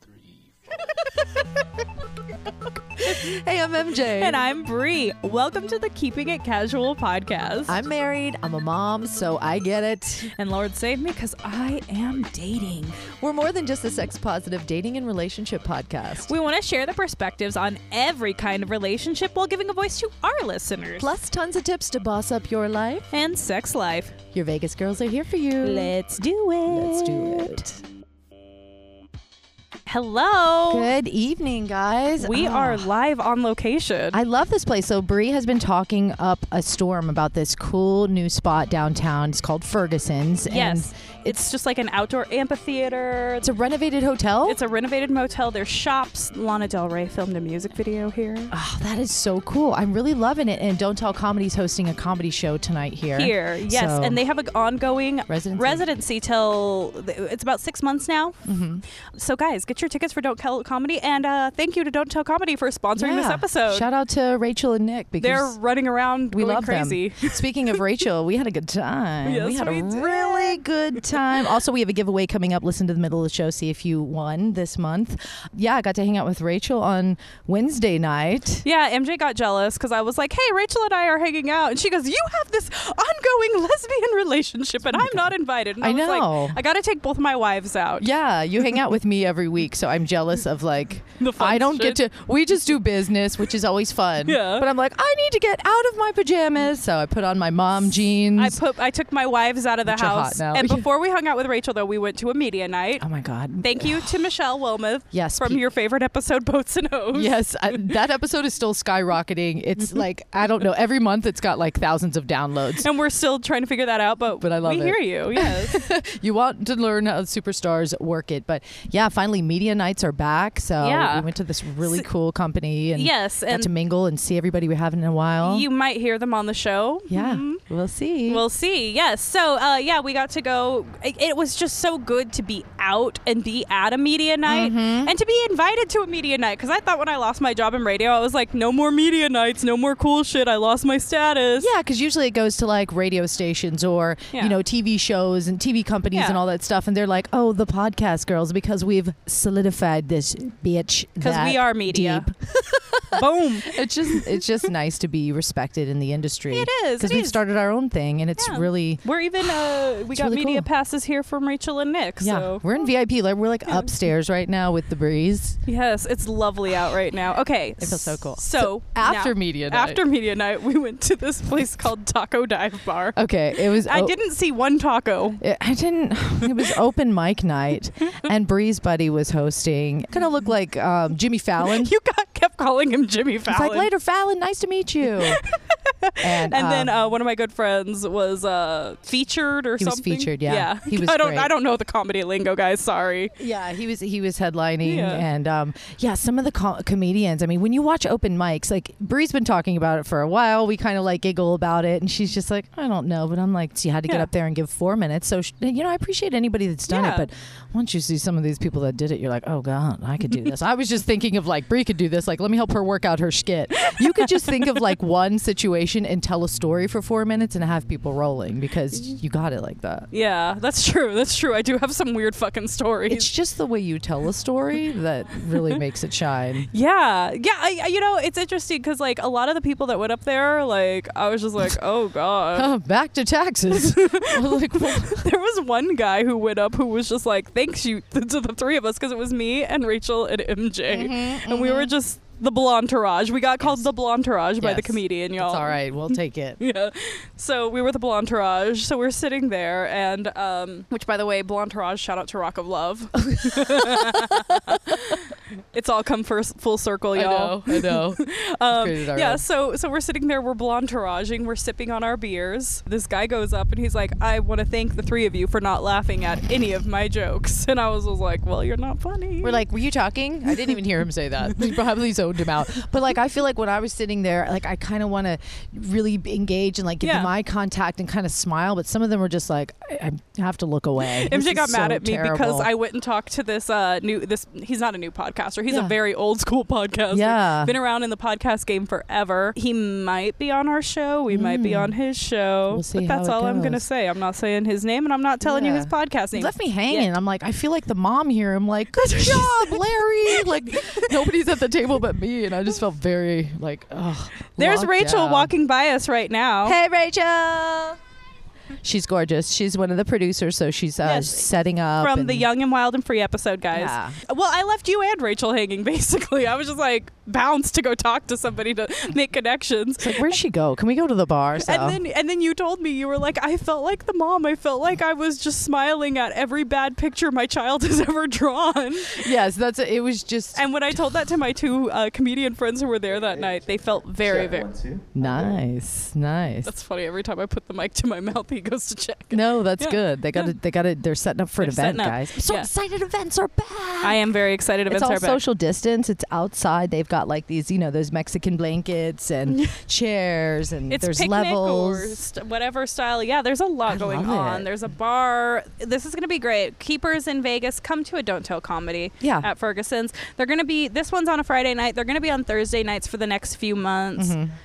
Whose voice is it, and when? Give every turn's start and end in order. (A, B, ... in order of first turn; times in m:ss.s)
0:00.9-0:01.2 A
0:03.0-0:04.4 A
0:03.0-0:03.3 B
0:04.2-0:07.8 B
0:07.7-0:10.3 A
0:10.3-0:13.1 B
0:13.2-0:16.3 A
0:16.2-0:21.1 B
0:21.0-0:23.1 A
0:23.1-0:24.2 B
0:24.3-0:25.9 A
0:25.6-0:27.8 B
0:26.6-0:27.7 A
0:29.9-0:30.9 B
0:30.7-0:32.9 A
0:32.2-0:34.2 B
0:34.1-0:41.4 A
0:40.5-0:43.5 B
0:43.4-0:44.6 A
0:44.4-0:48.5 B
0:48.5-0:54.2 A
0:53.2-0:58.4 B
0:55.3-0:55.8 A
0:58.4-0:58.8 A
0:59.1-1:03.9 B
1:03.0-1:05.6 A
1:05.2-1:07.8 B
1:06.3-1:18.6 A
1:09.2-1:11.2 B
1:18.6-1:28.1 B
1:24.9-1:26.6 A
1:28.0-1:38.6 A
1:31.2-1:32.0 B
1:34.2-1:34.7 B
1:38.3-1:43.1 B
1:39.8-1:40.9 A
1:43.0-1:44.2 A
1:43.6-1:47.8 B
1:45.1-1:45.6 A
1:47.1-1:52.9 A
1:52.8-1:55.8 B
1:54.4-2:05.7 A
2:00.8-2:01.3 B
2:02.9-2:03.7 B
2:05.4-2:07.6 B
2:07.1-2:08.4 A
2:08.3-2:21.7 B
2:14.5-2:15.1 A
2:21.6-2:40.7 A
2:26.1-2:26.4 B
2:31.2-2:32.2 B
2:33.1-2:34.4 B
2:36.5-2:37.4 B
2:38.4-2:42.6 B
2:42.2-2:45.6 A
2:45.6-2:55.4 B
2:47.8-2:50.0 A
2:53.2-2:54.2 A
2:55.4-3:01.9 A
3:01.6-3:03.9 B
3:03.5-3:05.4 A
3:05.2-3:13.3 B
3:06.2-3:06.9 A
3:09.8-3:11.5 A
3:13.4-3:40.1 A
3:14.8-3:15.2 B
3:26.9-3:27.3 B
3:33.8-3:34.2 B
3:40.1-3:43.3 B
3:43.1-3:46.7 A
3:46.7-3:52.7 B
3:52.5-3:55.3 A
3:53.7-4:05.8 B
4:00.9-4:01.9 A
4:03.6-4:03.9 A
4:04.6-4:06.6 A
4:06.6-4:29.6 B
4:13.2-4:15.2 A
4:17.1-4:19.4 A
4:29.4-4:42.7 A
4:37.0-4:37.3 B
4:41.0-4:57.1 B
4:45.7-4:45.9 A
4:47.1-4:47.7 A
4:51.3-4:51.9 A
4:52.7-4:53.8 A
4:55.4-5:05.5 A
4:59.0-5:01.3 B
5:04.6-5:06.8 B
5:06.6-5:08.0 A
5:08.8-5:12.5 A
5:11.0-5:20.4 B
5:13.7-5:14.2 A
5:20.0-5:22.0 A
5:21.6-5:29.3 B
5:29.1-5:31.2 A
5:30.5-5:34.9 B
5:35.1-5:36.7 A
5:36.6-5:40.5 B
5:39.3-5:44.2 A
5:41.6-5:42.7 B
5:44.0-5:45.4 B
5:44.9-5:52.2 A
5:49.5-5:49.8 B
5:50.9-6:04.3 B
5:53.9-5:54.7 A
5:59.2-5:59.5 A
6:04.2-6:04.5 A